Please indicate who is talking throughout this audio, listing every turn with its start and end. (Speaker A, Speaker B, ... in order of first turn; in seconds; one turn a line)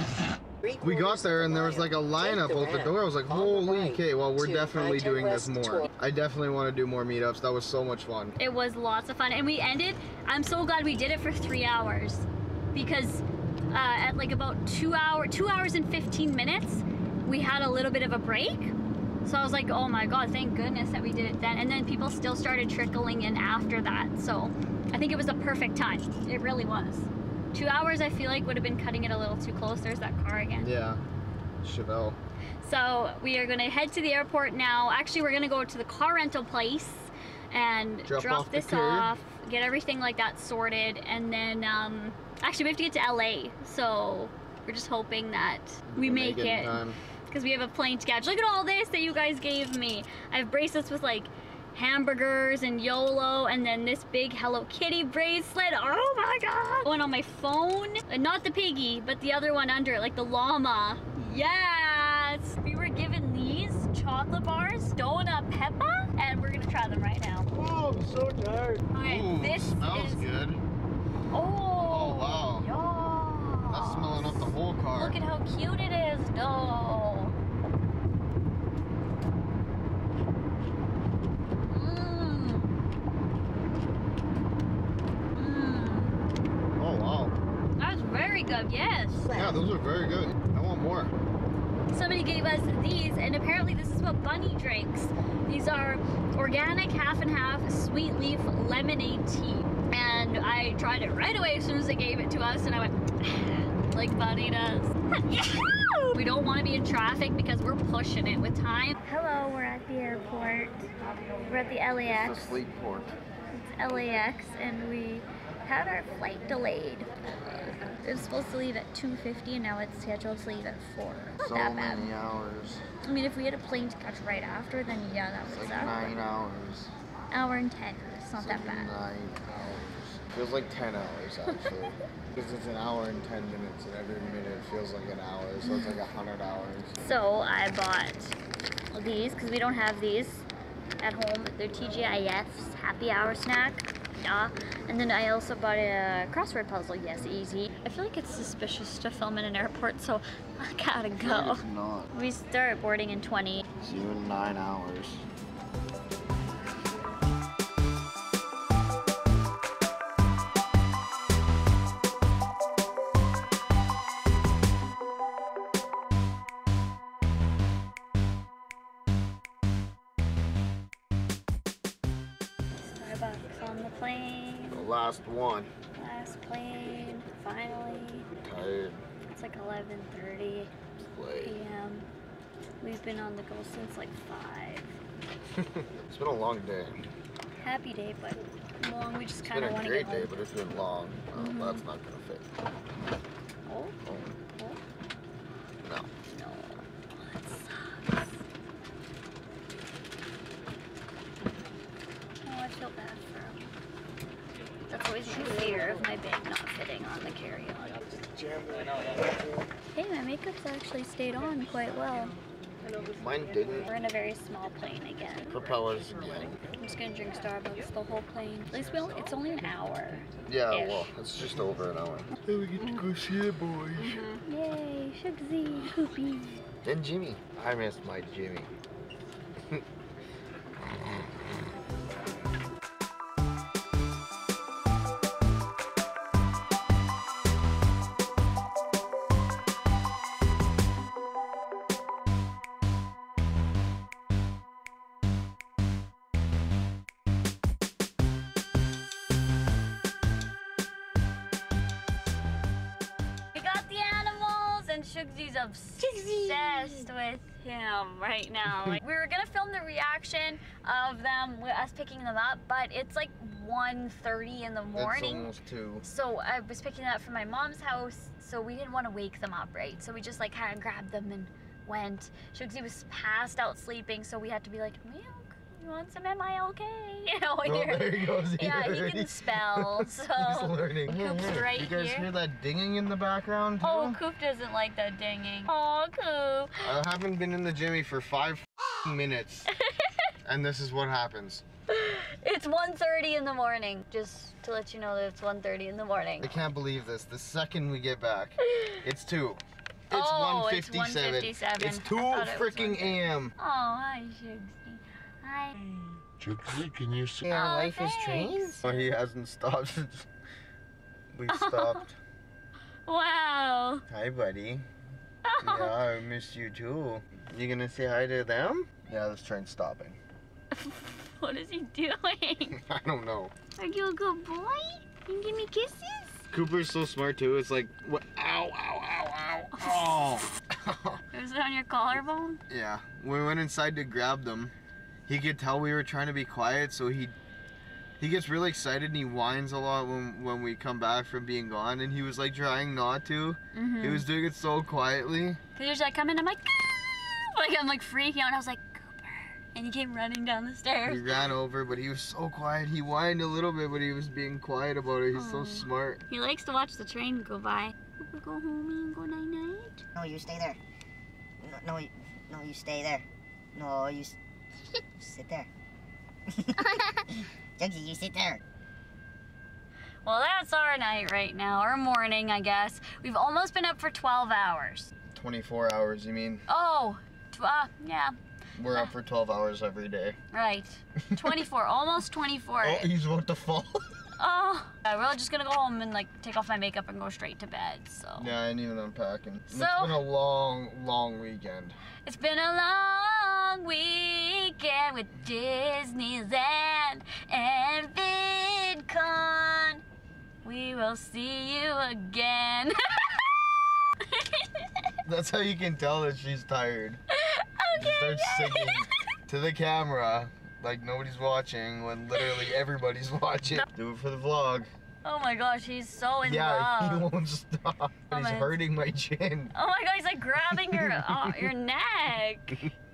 Speaker A: 0.6-5.9
Speaker B: 0.8-8.4
Speaker C: 8.4-30.7
Speaker B: 30.6-31.0
Speaker B: 31.6-32.2
Speaker C: 32.6-67.5
Speaker B: 38.1-39.1
Speaker B: 45.9-47.0
Speaker B: 67.5-70.6
Speaker C: 68.9-70.3
Speaker C: 71.3-77.3
Speaker B: 71.8-72.7
Speaker B: 73.7-75.2
Speaker C: 81.7-82.7
Speaker C: 85.3-86.2
Speaker B: 86.8-87.4
Speaker C: 87.8-89.4
Speaker B: 89.3-91.2
Speaker C: 91.9-110.9
Speaker C: 111.4-112.6
Speaker B: 112.1-113.1
Speaker C: 113.5-122.1
Speaker B: 121.4-122.8
Speaker C: 123.0-126.2
Speaker B: 125.5-126.9
Speaker C: 127.3-128.9
Speaker B: 128.4-137.0
Speaker C: 135.6-136.0
Speaker C: 137.0-138.4
Speaker C: 138.9-140.5
Speaker C: 141.0-153.7
Speaker B: 151.2-152.1
Speaker B: 153.8-155.2
Speaker C: 172.8-174.9
Speaker B: 174.7-175.7
Speaker C: 175.9-178.3
Speaker B: 178.4-179.0
Speaker C: 179.3-180.7
Speaker B: 181.0-181.6
Speaker C: 181.4-182.1
Speaker C: 182.8-185.0
Speaker B: 185.5-187.0
Speaker C: 187.6-190.3
Speaker B: 189.4-192.5
Speaker C: 191.3-191.8
Speaker C: 193.7-194.0
Speaker B: 194.0-194.4
Speaker C: 194.5-194.8
Speaker B: 195.8-196.1
Speaker C: 196.3-198.4
Speaker C: 202.4-203.7
Speaker C: 204.9-208.0
Speaker C: 209.9-212.3
Speaker B: 213.2-213.9
Speaker C: 213.9-215.5
Speaker B: 215.5-216.6
Speaker C: 216.8-221.1
Speaker B: 220.5-224.3
Speaker C: 222.8-223.0
Speaker C: 224.0-226.6
Speaker B: 226.8-228.7
Speaker B: 230.8-231.2
Speaker C: 253.5-265.5
Speaker B: 256.1-256.9
Speaker B: 264.9-266.0
Speaker C: 266.0-282.3
Speaker B: 277.6-284.2
Speaker C: 283.8-286.7
Speaker B: 286.8-289.7
Speaker C: 289.8-290.3
Speaker B: 290.4-291.6
Speaker C: 291.9-296.5
Speaker B: 296.4-303.5
Speaker C: 300.1-306.0
Speaker A: 306.4-307.4
Speaker B: 307.4-310.3
Speaker C: 307.4-309.1
Speaker B: 311.3-312.2
Speaker C: 311.5-312.1
Speaker C: 313.1-314.0
Speaker B: 314.1-314.9
Speaker C: 315.4-315.9
Speaker B: 315.6-320.2
Speaker C: 320.7-322.8
Speaker B: 322.7-323.5
Speaker C: 323.8-326.4
Speaker B: 326.5-331.2
Speaker C: 329.8-330.3
Speaker C: 331.3-332.6
Speaker B: 332.7-334.7
Speaker B: 335.3-337.4
Speaker B: 338.2-345.6
Speaker C: 343.7-344.2
Speaker C: 345.8-351.4
Speaker B: 351.1-356.2
Speaker C: 355.3-360.1
Speaker D: 360.2-360.8
Speaker D: 361.6-364.4
Speaker D: 364.9-365.7
Speaker D: 366.6-367.3
Speaker D: 367.8-368.6
Speaker C: 370.2-375.1
Speaker B: 375.3-376.6
Speaker C: 376.7-378.3
Speaker B: 378.8-380.4
Speaker C: 380.5-383.1
Speaker B: 381.3-381.6
Speaker B: 382.8-384.1
Speaker C: 384.4-388.5
Speaker B: 388.4-392.0
Speaker C: 389.7-390.2
Speaker C: 392.2-400.0
Speaker C: 400.6-405.1
Speaker B: 405.2-407.2
Speaker C: 407.3-409.2
Speaker B: 407.9-414.9
Speaker C: 412.4-412.7
Speaker C: 415.2-417.3
Speaker B: 416.4-419.7
Speaker C: 418.3-418.8
Speaker C: 419.7-422.9
Speaker B: 420.7-421.7